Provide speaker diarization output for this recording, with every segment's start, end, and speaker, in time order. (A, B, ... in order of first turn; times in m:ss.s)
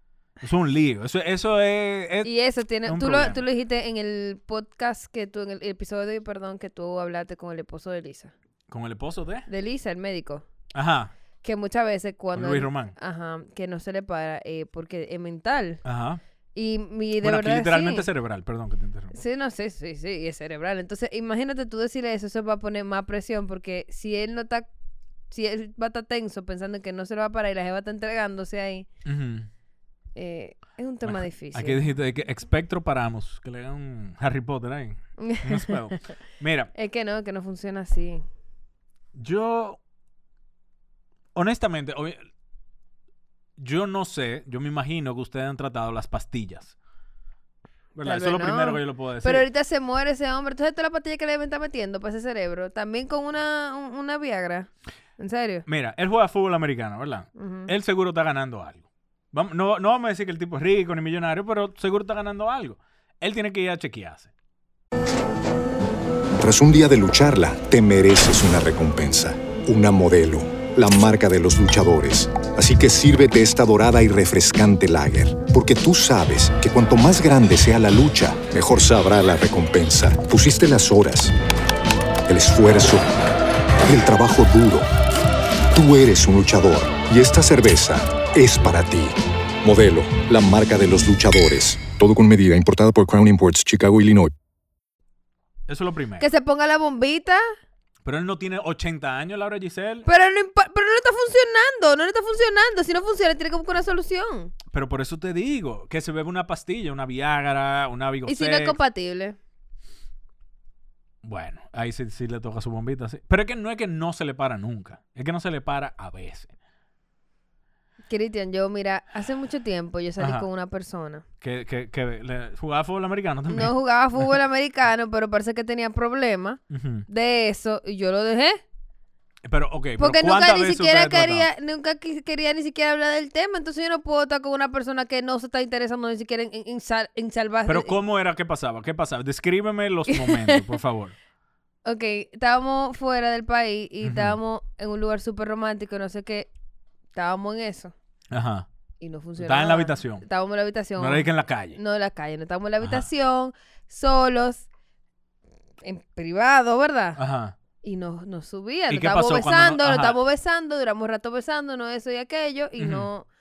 0:00.4-0:02.3 A
0:02.2-0:08.3 B
0:02.8-0:03.4 A
0:08.7-0:09.5 A
0:09.5-0:10.4 B
0:10.7-0:11.1 A
0:11.4-0:15.8 B
0:12.3-0:13.0 A
0:15.8-0:16.2 A
0:16.5-0:18.1 B
0:17.2-0:19.1 A
0:19.1-0:24.7 B
0:25.3-0:28.9 B
0:29.0-0:29.5 A
0:30.2-0:31.8 B
0:31.0-0:36.7 A
0:35.2-0:35.8 B
0:36.8-0:38.2 B
0:39.1-0:39.8 A
0:41.4-0:42.2 A
0:43.6-0:46.7 A
0:48.0-0:49.4 A
0:48.0-0:55.6 B
0:55.6-1:04.3 A
0:57.4-0:57.7 B
1:06.4-1:21.3 C
1:22.3-1:23.1 C
1:23.9-1:24.9 C
1:25.7-1:34.3 C
1:35.7-1:36.2 A
1:36.2-1:37.5 B
1:38.0-1:40.1 A
1:40.0-1:44.5 B
1:44.7-1:48.8 A
1:48.2-1:49.4 B
1:51.2-1:56.5 A
1:58.1-2:01.2 B
2:00.2-2:00.5 A
2:01.4-2:04.3 A
2:03.5-2:08.6 B
2:06.7-2:07.1 A
2:09.4-2:11.5 A
2:10.0-2:17.9 B
2:17.6-2:21.1 A
2:20.1-2:20.6 B
2:21.9-2:26.5 B
2:24.0-2:24.4 A
2:27.1-2:27.9 B
2:28.3-2:28.7 A
2:29.0-2:34.7 B
2:29.4-2:30.2 A
2:31.0-2:31.8 A
2:32.8-2:33.0 A
2:35.8-2:37.2 B
2:37.2-2:37.5 A
2:37.8-2:43.3 B
2:38.9-2:40.2 A
2:42.8-2:43.1 A